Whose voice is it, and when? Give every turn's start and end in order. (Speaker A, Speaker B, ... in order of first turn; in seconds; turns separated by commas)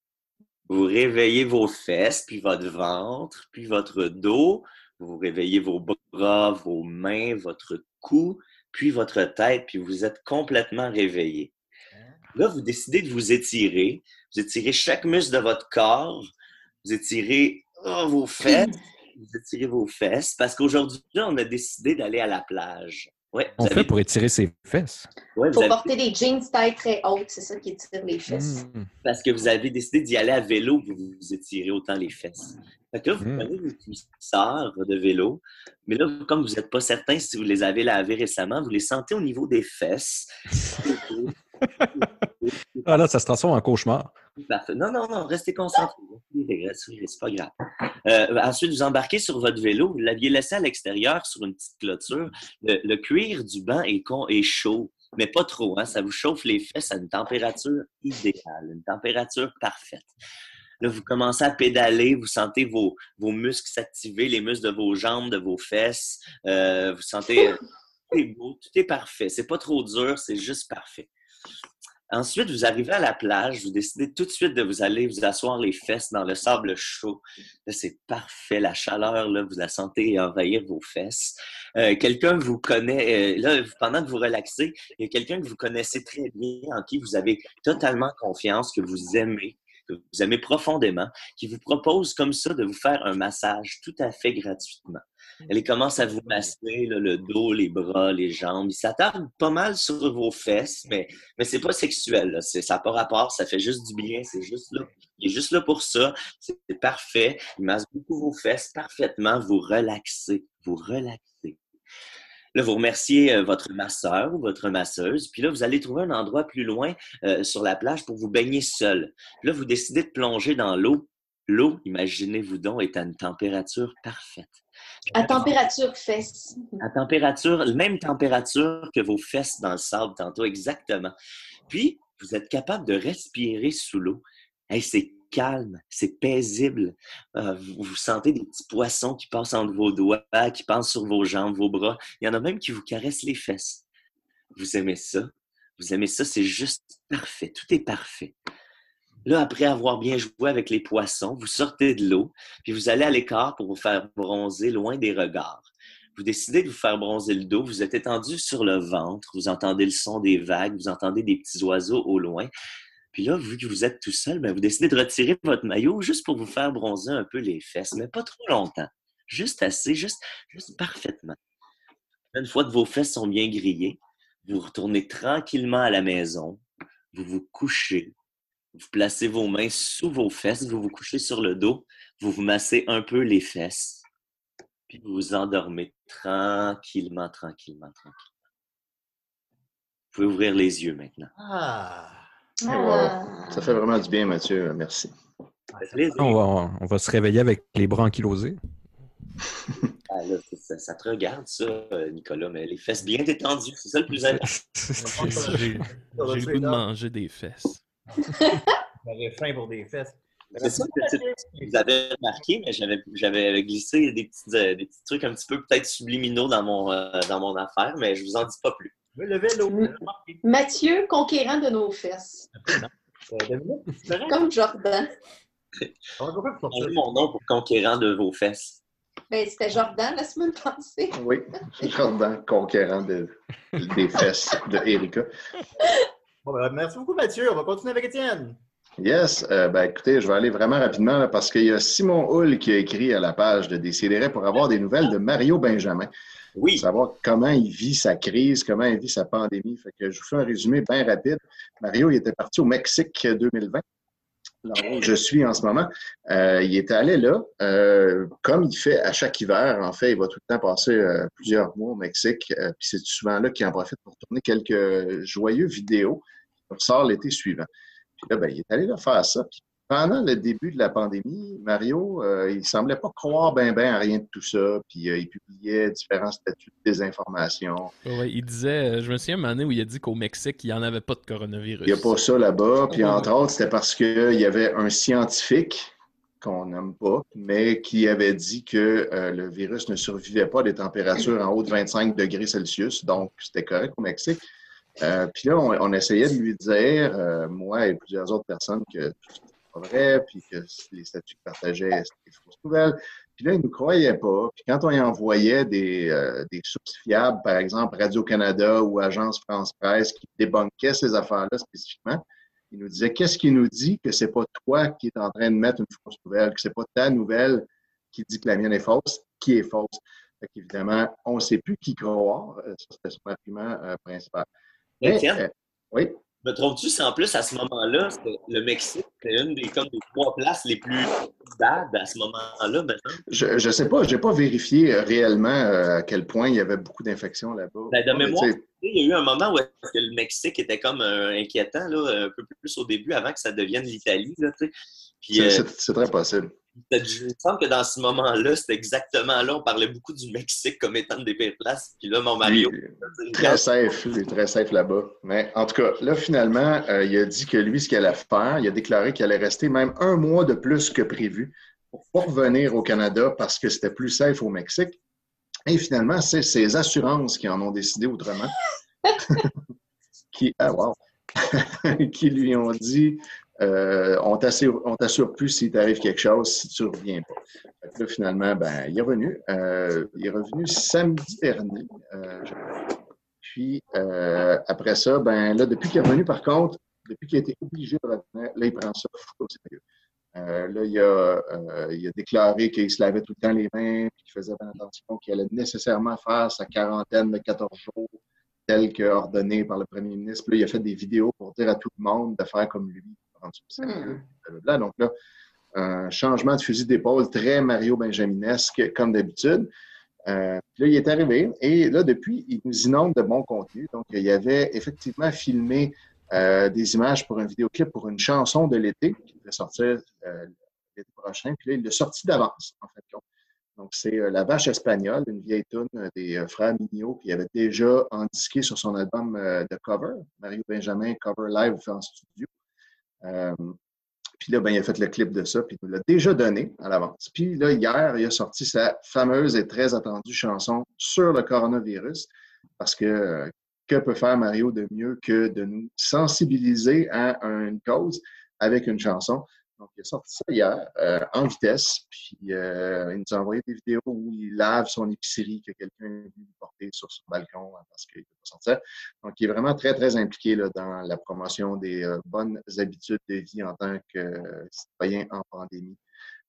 Speaker A: 0.7-11.5, Speaker B: 11.9-12.2, Speaker A: 12.3-16.3, Speaker A: 16.8-23.9, Speaker C: 18.4-18.8, Speaker D: 23.6-25.1, Speaker A: 25.4-25.9, Speaker C: 25.5-28.6, Speaker D: 28.3-28.9, Speaker A: 29.0-41.3, Speaker D: 33.2-33.5, Speaker A: 41.9-43.0, Speaker D: 42.9-44.1, Speaker A: 44.4-47.5, Speaker A: 48.1-60.1, Speaker A: 60.8-67.6, Speaker A: 68.1-71.1, Speaker A: 72.1-111.6, Speaker A: 112.5-124.6, Speaker B: 125.1-125.5, Speaker C: 125.2-126.8, Speaker A: 126.8-131.1, Speaker A: 131.7-143.8, Speaker A: 144.6-148.3, Speaker A: 149.2-162.5, Speaker A: 163.1-171.4, Speaker A: 172.3-176.6, Speaker A: 177.1-178.1, Speaker A: 178.8-184.0, Speaker A: 184.9-188.2, Speaker A: 190.1-191.3, Speaker B: 191.4-192.2, Speaker C: 192.6-193.8, Speaker E: 192.7-195.1, Speaker B: 195.7-196.2, Speaker A: 195.8-196.4, Speaker D: 196.2-198.6, Speaker A: 200.1-204.5, Speaker D: 204.1-205.7, Speaker F: 205.0-207.8, Speaker B: 205.1-206.8, Speaker B: 208.1-211.8, Speaker A: 210.6-218.9, Speaker B: 219.2-220.4, Speaker C: 219.7-222.5, Speaker B: 222.6-224.5, Speaker C: 224.3-225.1, Speaker B: 226.2-227.2, Speaker A: 226.7-228.8, Speaker C: 229.3-231.2, Speaker E: 231.2-235.3, Speaker B: 236.4-238.6, Speaker E: 239.0-246.1, Speaker A: 246.6-246.9, Speaker E: 246.8-253.8, Speaker E: 254.7-267.7, Speaker E: 268.2-277.9, Speaker F: 278.1-282.1, Speaker E: 281.9-285.9, Speaker F: 282.9-283.3, Speaker E: 286.4-294.4, Speaker E: 295.0-324.5, Speaker A: 325.0-325.4, Speaker E: 325.0-326.2, Speaker A: 326.4-333.2, Speaker E: 333.3-338.6, Speaker A: 337.9-345.6, Speaker E: 345.3-346.5, Speaker A: 346.9-353.7, Speaker E: 352.4-365.0, Speaker E: 365.7-368.6, Speaker E: 369.2-369.6, Speaker E: 370.3-382.7, Speaker E: 383.4-389.8, Speaker E: 390.3-398.2, Speaker E: 398.7-405.1, Speaker C: 403.8-404.2, Speaker E: 405.8-409.7, Speaker E: 410.3-423.2, Speaker E: 423.8-432.5, Speaker E: 433.2-433.8, Speaker E: 434.4-466.0